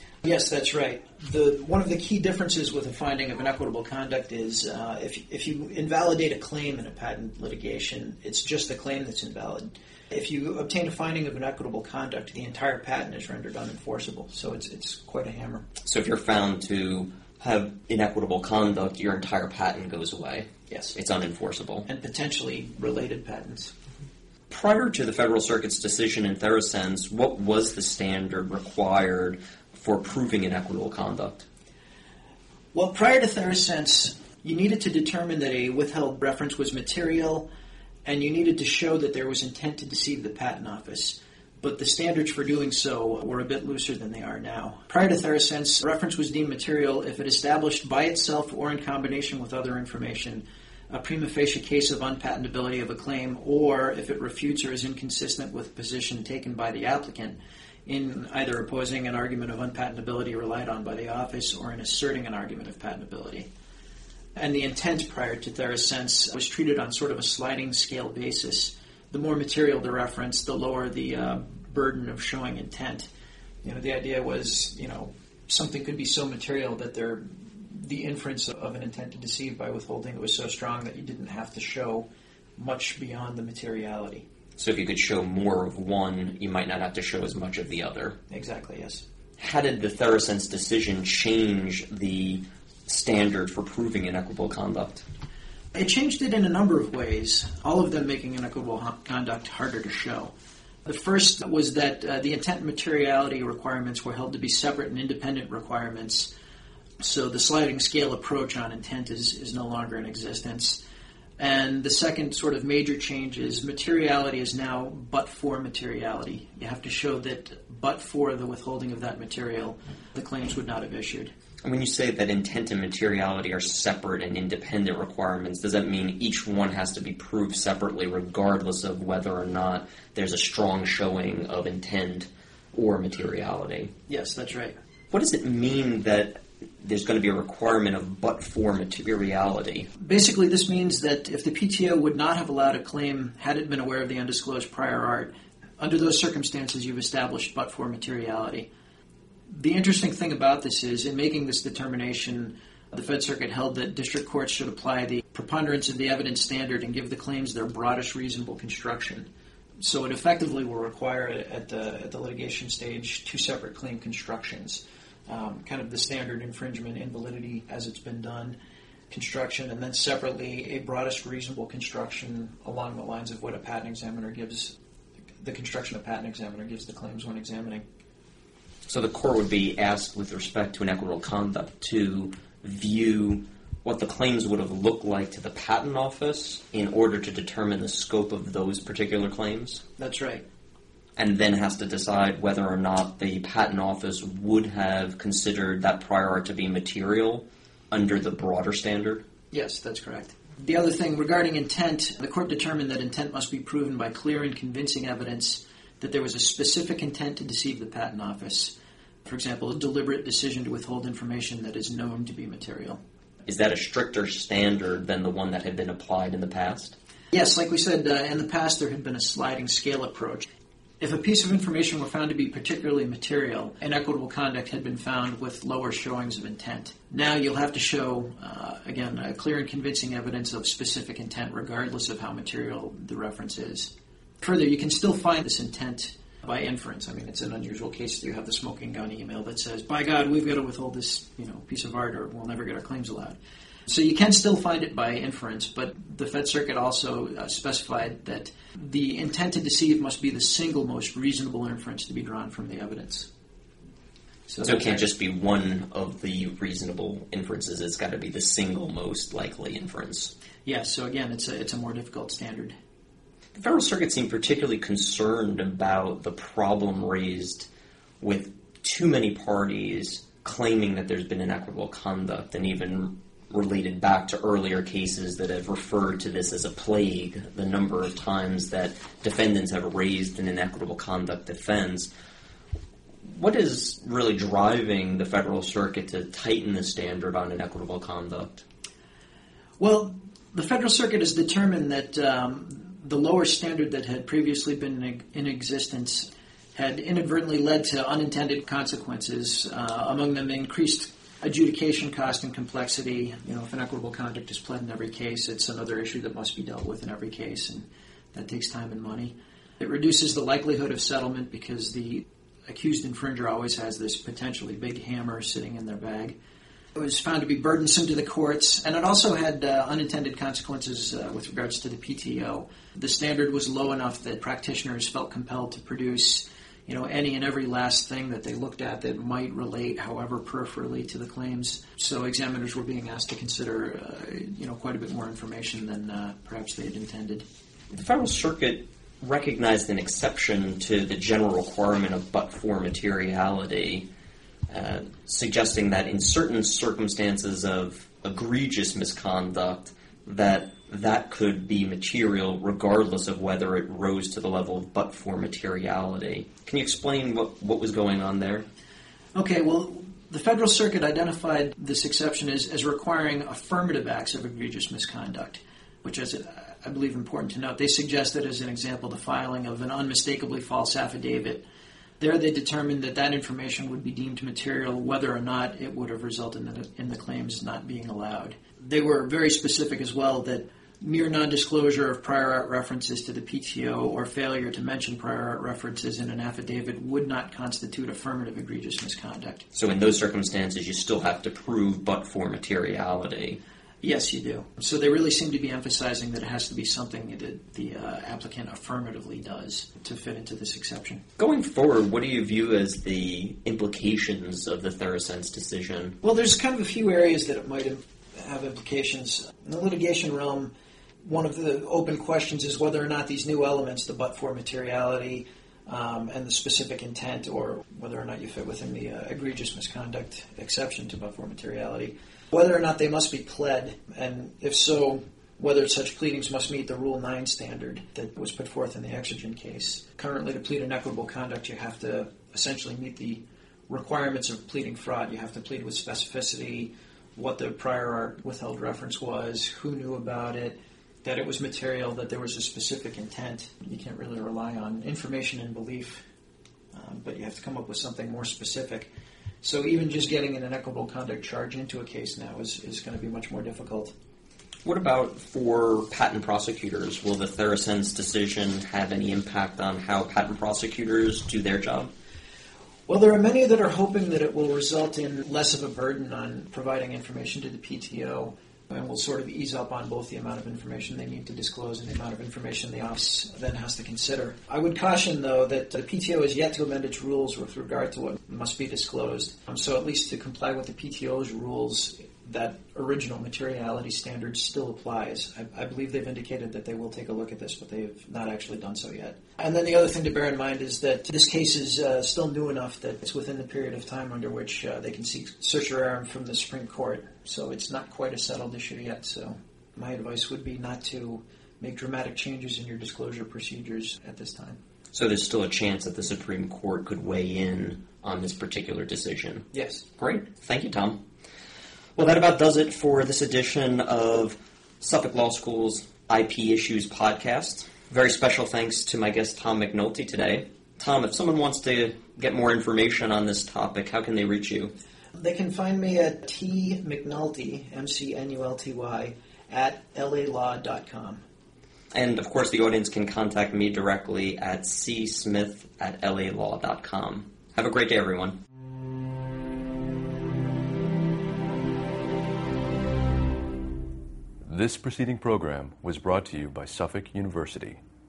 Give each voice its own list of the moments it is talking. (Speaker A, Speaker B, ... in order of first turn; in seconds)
Speaker A: 0.2-15.7, 20.7-20.9, 21.9-23.7, 32.7-37.5, 38.0-63.5, 64.3-73.1, 73.6-82.0, 82.6-84.2, 88.3-89.0, 95.7-100.3, 100.8-106.3, 107.0-110.8, 111.4-121.3, 134.1-134.8, 140.0-148.7, 149.5-159.3, 159.8-168.6, 169.1-174.7, 175.4-177.8, 190.0-190.4, 199.5-208.7, 209.2-213.0, 217.3-220.5, 221.0-253.3, 254.5-255.1, 260.6-262.8, 289.8-316.4, 316.9-337.4, 359.3-371.6, 372.2-389.6, 394.0-401.2, 406.2-410.7, 411.2-446.2, 446.9-449.1, 449.6-454.1, 463.1-504.8, 509.7-510.0, 525.3-531.4
Speaker B: 15.8-21.9, 24.5-31.4, 84.6-88.2, 89.4-95.0, 121.6-133.9, 135.1-139.9, 178.8-189.8, 191.2-199.2, 213.4-216.9, 254.6-260.3, 263.5-267.7, 268.2-282.1, 283.2-288.6, 337.9-344.1, 344.7-358.6, 389.7-393.6, 401.4-406.2, 454.8-462.1, 505.1-511.2, 512.2-524.9, 532.1-538.6
Speaker C: 544.6-548.0